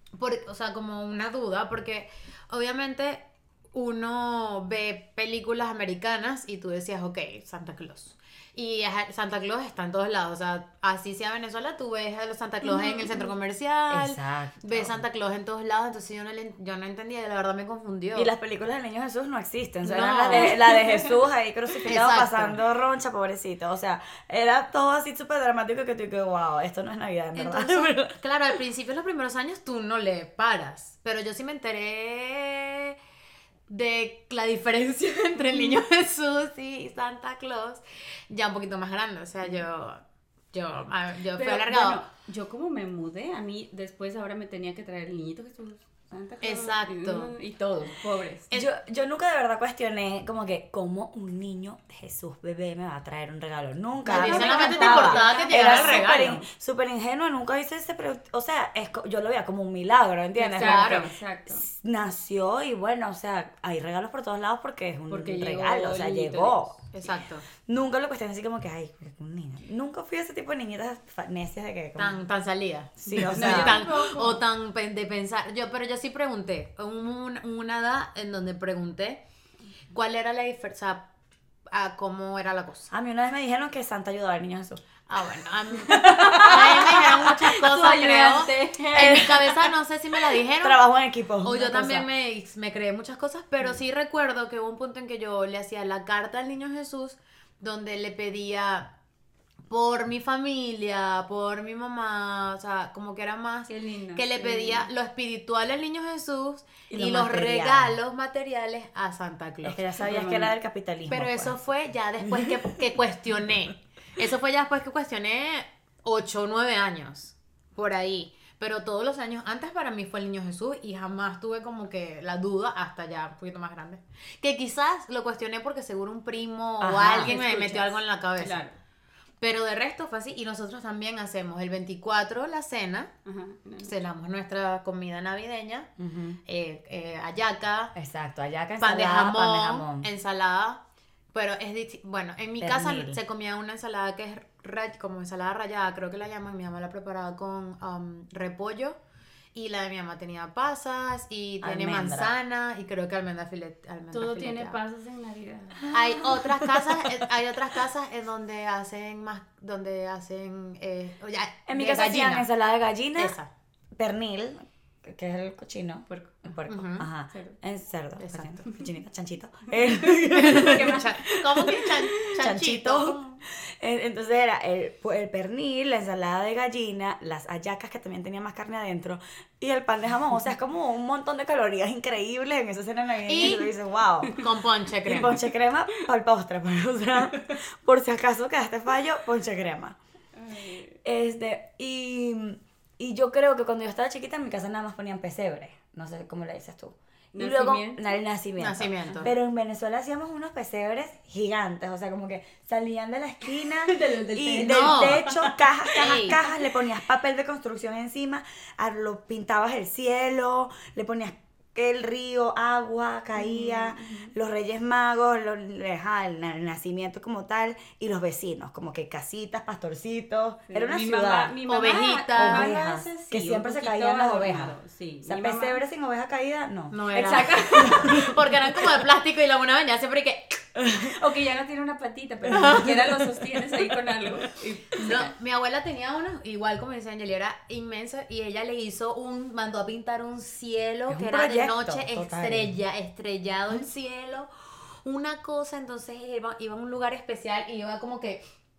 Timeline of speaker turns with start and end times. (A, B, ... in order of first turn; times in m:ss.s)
0:00.2-0:18.3 A
0:12.8-0:13.1 B
0:13.9-0:15.0 C
0:18.2-0:28.2 C
0:19.8-0:20.8 A
0:20.3-0:21.2 B
0:21.8-0:22.6 A
0:27.4-0:33.0 A
0:33.7-0:40.0 A
0:40.5-0:42.0 A
0:41.3-0:48.5 B
0:46.4-0:47.3 A
0:48.5-1:06.9 C
0:54.1-0:56.4 A
0:54.1-0:56.4 B
1:00.4-1:01.6 B
1:00.6-1:01.1 A
1:05.1-1:06.8 B
1:06.9-1:07.4 A
1:07.7-1:12.2 C
1:12.0-1:19.2 A
1:13.0-1:13.9 C
1:13.1-1:14.4 B
1:19.9-1:21.1 A
1:21.7-1:22.9 A
1:22.9-1:24.8 C
1:25.1-1:30.9 A
1:25.9-1:27.5 C
1:25.9-1:29.5 B
1:28.9-1:29.6 C
1:30.5-1:32.1 C
1:31.4-1:38.9 A
1:39.7-1:49.8 A
1:43.7-1:44.9 B
1:46.9-1:48.0 C
1:49.6-1:51.6 C
1:50.0-1:50.5 B
1:51.1-2:08.6 A
1:52.2-1:52.8 C
2:06.8-2:07.4 C
2:07.2-2:08.8 B
2:09.4-2:13.1 A
2:13.2-2:14.0 B
2:13.8-2:15.9 A
2:16.0-2:16.4 C
2:16.5-2:17.9 A
2:18.0-2:20.1 C
2:18.8-2:20.8 A
2:21.3-2:29.0 A
2:22.6-2:23.2 C
2:29.5-2:34.8 A
2:31.6-2:32.3 C
2:34.1-2:35.8 B
2:35.8-2:37.1 C
2:35.9-2:42.5 A
2:41.7-2:43.4 C
2:43.2-2:43.5 A
2:44.0-3:04.5 C
2:46.1-2:46.4 B
2:46.7-2:47.1 A
2:47.3-2:47.6 B
2:48.2-2:48.6 A
2:50.2-2:53.4 A
2:50.5-2:51.0 B
3:03.3-3:03.7 A
3:04.3-3:05.4 A
3:05.0-3:10.0 C
3:10.4-3:11.0 B
3:11.0-3:41.6 C
3:17.3-3:18.1 B
3:18.6-3:19.3 A
3:23.6-3:26.4 B
3:24.6-3:25.4 A
3:26.0-3:26.4 A
3:33.4-3:34.3 B
3:40.7-3:45.8 B
3:41.7-3:42.7 A
3:42.4-3:47.0 C
3:46.9-3:50.7 A
3:47.1-3:48.4 B
3:47.8-3:48.3 C
3:50.8-3:51.1 C
3:51.0-3:55.3 B
3:52.6-3:53.1 A
3:54.9-4:08.4 A
4:01.1-4:02.8 C